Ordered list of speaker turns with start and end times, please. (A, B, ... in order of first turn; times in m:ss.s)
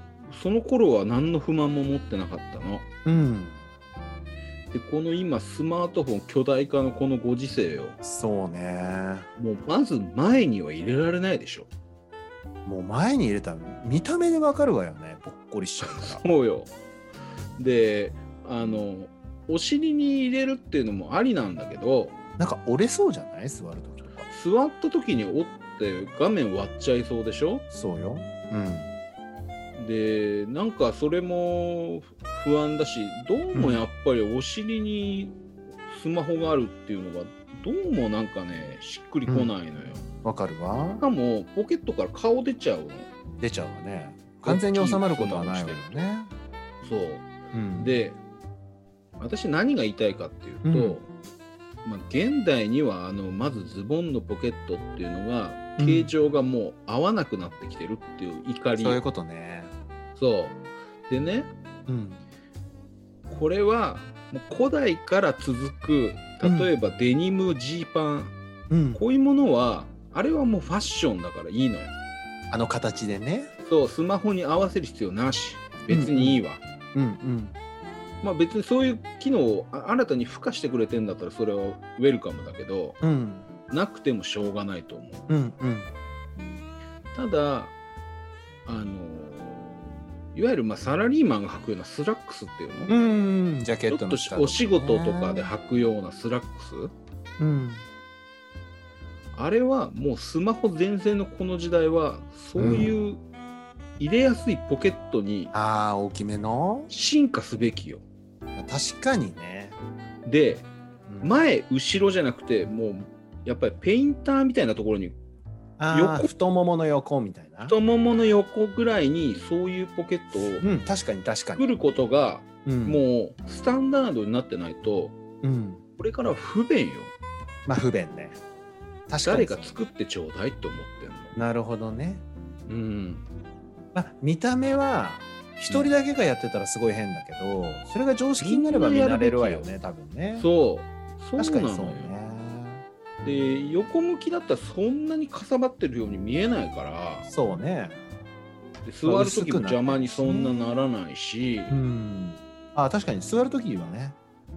0:00.3-0:02.8 A
0:03.0-0:03.6 B
0:04.7-0:08.0 A
0:08.0-0:09.3 B
0:09.4-0:11.7 A
0:12.6-0:16.2 B
0:15.8-0:16.7 A
0:17.6-0:22.1 A
0:22.4-0:24.3 B
0:24.3-0:27.6 A
0:27.7-0:28.9 B
0:29.8-0:40.0 A
0:33.5-0:33.8 B
0:39.3-0:39.5 B
0:40.2-0:41.0 B
0:40.8-0:43.1 A
0:43.4-0:46.3 B
0:44.4-0:46.0 A
0:46.8-0:48.2 A
0:47.5-0:48.0 B
0:49.2-0:51.1 A
0:50.6-0:51.0 B
0:51.8-0:59.0 A
0:55.8-0:56.1 B
0:58.8-0:59.7 B
1:00.2-1:01.5 A
1:01.9-1:02.2 B
1:03.3-1:08.3 A
1:06.4-1:06.7 B
1:08.7-1:09.0 B
1:08.9-1:11.9 A
1:12.5-1:13.5 B
1:13.6-1:16.6 A
1:15.9-1:16.4 B
1:16.9-1:17.5 B
1:18.2-1:23.0 A
1:23.0-1:23.5 B
1:23.7-1:25.2 A
1:25.3-1:25.9 B
1:27.1-1:27.7 A
1:28.6-1:29.8 A
1:30.3-1:32.9 A
1:32.9-1:35.5 B
1:33.9-1:36.9 A
1:37.4-1:37.8 B
1:39.3-1:43.2 A
1:42.6-1:43.0 B
1:44.0-1:45.5 A
1:45.5-1:46.9 B
1:46.9-1:48.0 A
1:48.6-1:49.8 B
1:50.2-1:50.7 A
1:51.1-1:51.4 B
1:51.2-1:55.2 A
1:55.8-1:57.8 B
1:55.9-1:56.3 A
1:57.6-2:00.6 A
2:00.6-2:01.7 B
2:01.5-2:05.2 A
2:02.6-2:03.0 B
2:05.4-2:05.8 B
2:06.0-2:07.1 A
2:07.6-2:08.4 B
2:09.1-2:09.7 B
2:09.2-2:11.3 A
2:11.3-2:12.2 B
2:12.7-2:13.2 A
2:13.9-2:20.5 B
2:18.4-2:19.7 A
2:20.3-2:22.1 A
2:21.4-2:22.8 B
2:23.2-2:27.3 A
2:27.3-2:28.0 B
2:28.8-2:31.8 A
2:29.0-2:30.8 B
2:31.7-2:34.2 B